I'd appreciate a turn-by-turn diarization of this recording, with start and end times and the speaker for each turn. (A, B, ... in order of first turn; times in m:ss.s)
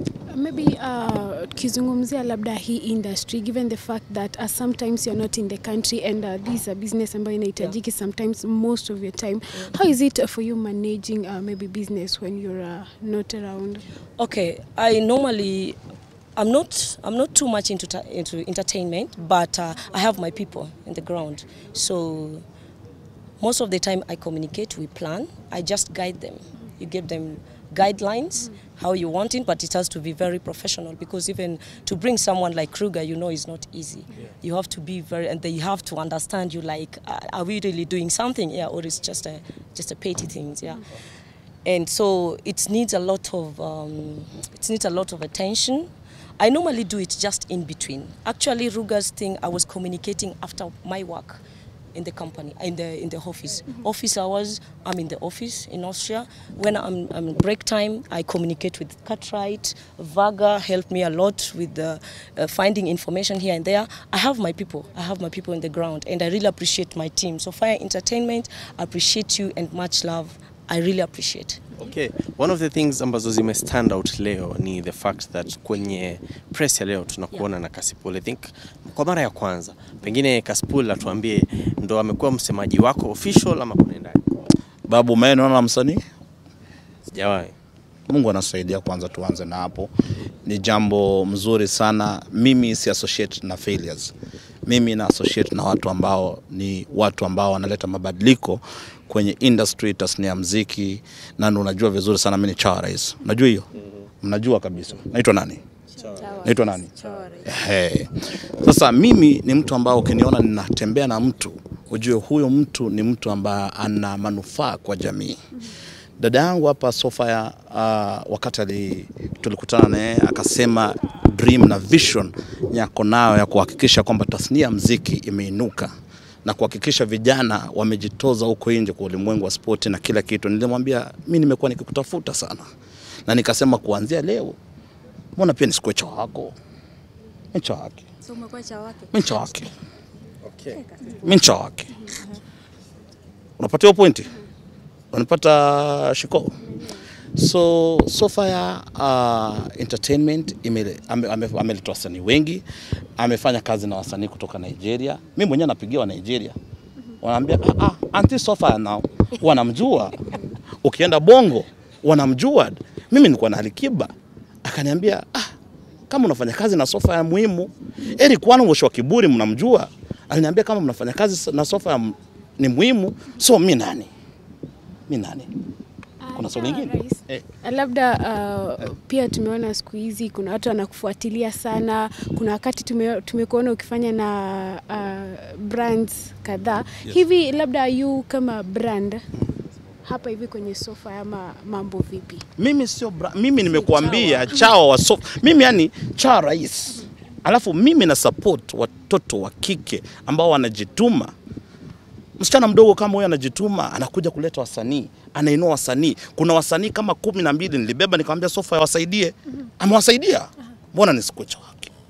0:00.3-0:13.8 A
0:14.2-0:15.8 B
0:16.4-0:22.4 B
0:23.4-0:40.9 B
0:41.6-0:51.4 B
0:52.0-1:11.6 B
1:11.8-1:24.2 C
1:24.9-1:26.0 D
1:27.1-1:27.6 C
1:28.1-1:29.9 D
1:30.4-1:34.1 D
1:34.7-1:43.7 D
1:43.8-1:44.1 C
1:44.2-1:45.6 D
1:46.0-1:47.1 C
1:46.0-1:47.5 E
1:46.4-1:46.9 D
1:47.4-1:55.4 D
1:56.2-2:05.9 D
2:06.4-2:12.7 D
2:13.3-2:14.6 D
2:15.4-2:16.6 D
2:17.5-2:18.0 D
2:18.2-2:19.2 E
2:19.1-2:19.7 D
2:20.4-2:20.8 C
2:20.7-2:21.4 E
2:21.2-2:21.9 D
2:23.6-2:24.3 D
2:25.1-2:26.6 D
2:27.4-2:32.6 D
2:33.2-2:36.6 D
2:37.2-2:40.3 D
2:40.8-2:44.1 D
2:44.6-2:45.5 D
2:46.1-2:54.1 D
2:55.1-2:55.5 D
2:56.2-3:09.2 A
2:56.3-2:57.4 D
3:10.0-3:12.4 A
3:12.6-3:21.3 D
3:13.7-3:14.5 E
3:22.4-3:31.9 D